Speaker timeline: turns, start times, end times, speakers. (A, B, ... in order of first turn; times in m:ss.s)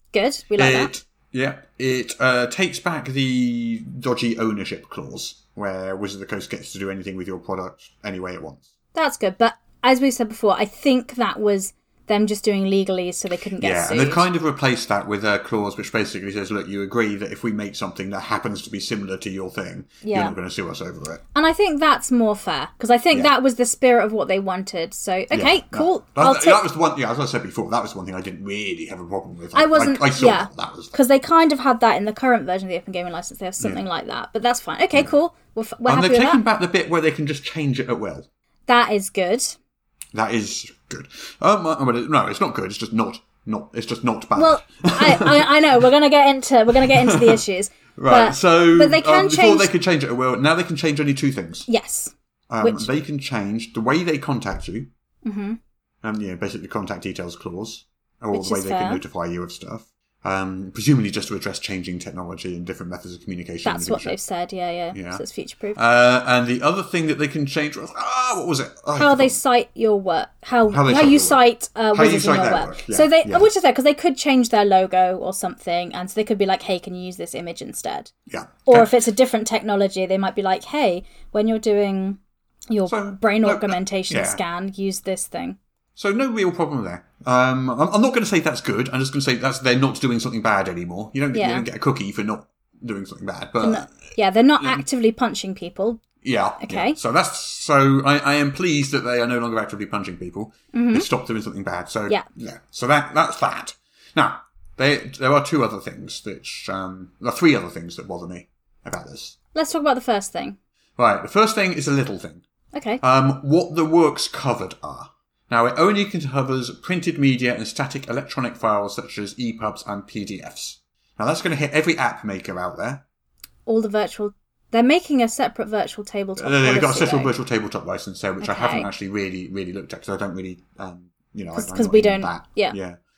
0:00.1-0:00.9 A
0:00.6-0:08.7 B
0:08.9-0:14.2 A
0:13.6-0:21.2 B
0:20.0-0:20.4 A
0:21.3-0:26.6 A
0:25.3-0:30.9 B
0:29.5-0:36.4 A
0:35.8-0:38.3 B
0:38.7-0:39.6 A
0:40.1-0:45.5 B
0:44.4-0:49.7 A
0:46.8-0:47.4 B
0:48.0-0:51.7 B
0:51.7-0:52.9 A
0:52.5-0:54.9 B
0:55.2-0:55.6 A
0:56.0-1:04.2 B
0:58.3-0:59.0 A
1:03.6-1:05.8 A
1:04.9-1:05.2 B
1:05.8-1:09.4 B
1:09.0-1:18.1 A
1:10.7-1:11.4 B
1:11.9-1:13.5 B
1:18.3-1:18.9 B
1:18.7-1:22.2 A
1:22.7-1:25.6 A
1:22.9-1:24.4 B
1:26.0-1:34.0 B
1:31.3-1:31.7 A
1:33.6-1:36.0 A
1:36.2-1:49.4 B
1:36.6-1:37.0 A
1:40.7-1:41.1 A
1:49.6-1:50.6 A
1:51.0-1:52.4 B
1:52.7-1:53.0 A
1:53.0-2:03.0 B
2:03.7-2:07.4 A
2:06.4-2:13.0 B
2:08.4-2:08.9 A
2:11.5-2:12.8 A